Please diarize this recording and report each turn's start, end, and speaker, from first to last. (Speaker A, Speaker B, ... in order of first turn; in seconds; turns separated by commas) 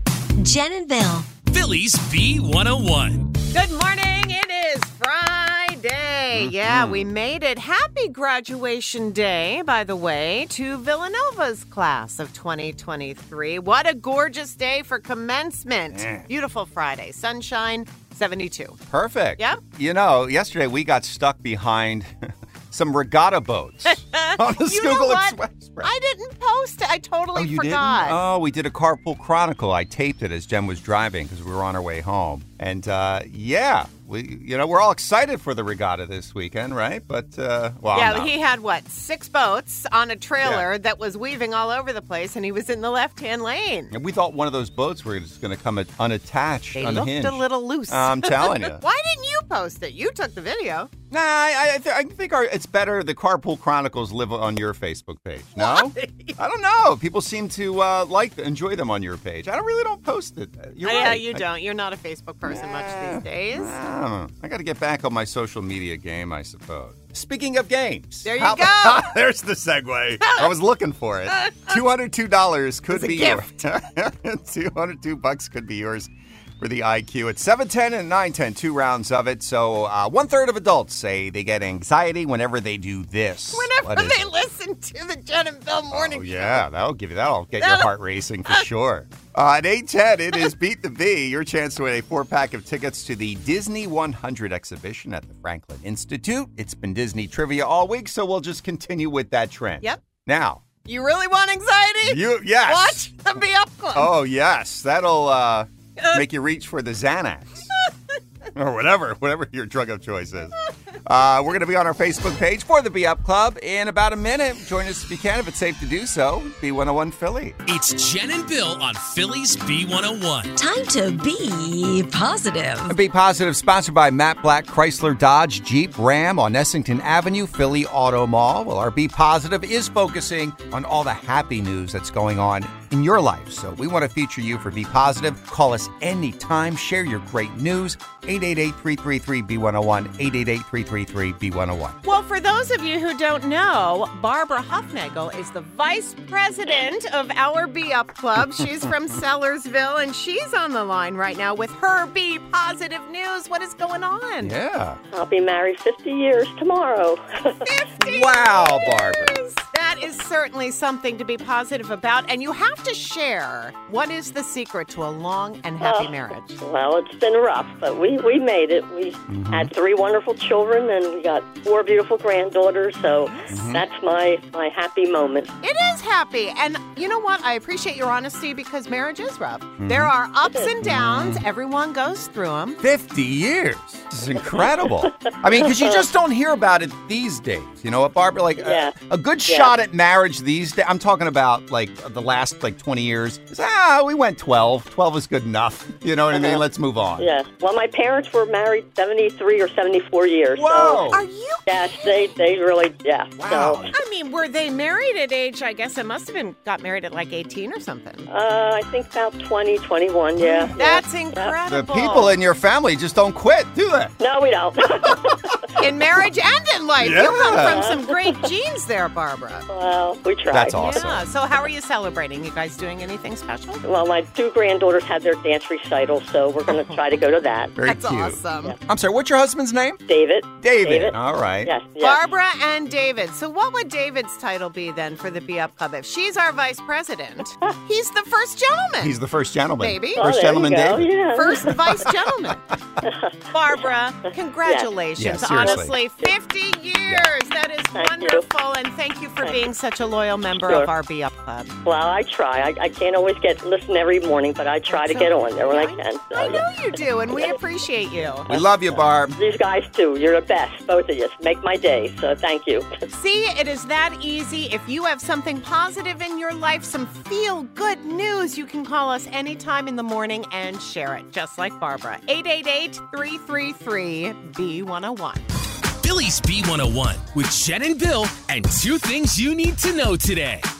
Speaker A: 0.4-1.3, Speaker B: 1.4-3.3, Speaker C: 3.5-18.8, Speaker D: 6.3-7.1, Speaker D: 15.9-16.3, Speaker D: 18.9-22.1, Speaker D: 22.7-25.9, Speaker C: 24.1-28.2, Speaker D: 27.4-38.3, Speaker C: 37.9-43.9, Speaker D: 40.4-40.7, Speaker D: 43.9-48.8, Speaker C: 46.8-50.9, Speaker D: 51.1-61.4, Speaker C: 55.6-56.4, Speaker C: 60.8-63.7, Speaker D: 62.4-84.3, Speaker C: 68.2-69.1, Speaker C: 70.2-70.5, Speaker C: 71.4-71.8, Speaker C: 72.9-73.5, Speaker C: 83.5-86.6, Speaker D: 85.9-100.7, Speaker C: 87.6-87.9, Speaker C: 100.8-104.1, Speaker D: 102.0-103.0, Speaker D: 103.9-107.7, Speaker D: 108.5-110.5, Speaker D: 111.0-117.6, Speaker B: 117.7-120.5, Speaker A: 120.5-123.0, Speaker D: 122.9-142.0, Speaker C: 142.0-154.6, Speaker D: 154.4-155.0, Speaker E: 155.1-157.6, Speaker C: 157.7-166.6, Speaker D: 158.0-159.3, Speaker E: 165.8-175.5, Speaker D: 169.3-169.7, Speaker D: 173.5-173.8, Speaker C: 175.6-182.8, Speaker D: 179.8-180.1, Speaker D: 180.8-181.4, Speaker D: 182.8-197.3, Speaker E: 184.9-186.0, Speaker E: 188.6-188.9, Speaker E: 189.5-189.7, Speaker E: 196.3-196.6, Speaker E: 197.2-201.1, Speaker D: 200.6-201.2, Speaker C: 201.1-202.3, Speaker E: 201.7-203.9, Speaker D: 203.4-203.9, Speaker C: 203.9-208.3, Speaker E: 208.3-211.5, Speaker D: 210.4-211.0, Speaker C: 210.8-212.4, Speaker D: 211.7-214.1, Speaker E: 214.2-215.3, Speaker D: 215.1-215.6, Speaker C: 215.8-219.7, Speaker D: 217.0-217.9, Speaker E: 217.5-218.2, Speaker E: 219.7-221.0, Speaker D: 220.5-221.3, Speaker C: 220.7-223.8, Speaker E: 223.8-227.7, Speaker C: 226.7-227.0, Speaker D: 227.8-230.0, Speaker C: 227.8-228.7, Speaker E: 230.1-232.3, Speaker D: 230.6-231.7, Speaker C: 232.0-239.2, Speaker D: 239.0-241.2, Speaker C: 239.8-240.5, Speaker E: 240.2-241.7, Speaker C: 241.2-242.6, Speaker E: 243.0-243.9, Speaker C: 243.5-251.7, Speaker E: 244.6-244.9, Speaker D: 245.2-246.0, Speaker E: 245.6-246.3, Speaker E: 247.9-248.4, Speaker E: 250.6-250.9, Speaker E: 251.8-256.7, Speaker C: 254.9-258.5, Speaker E: 257.3-257.6, Speaker D: 258.5-259.4, Speaker E: 259.4-262.9, Speaker C: 263.1-275.4, Speaker B: 276.0-280.7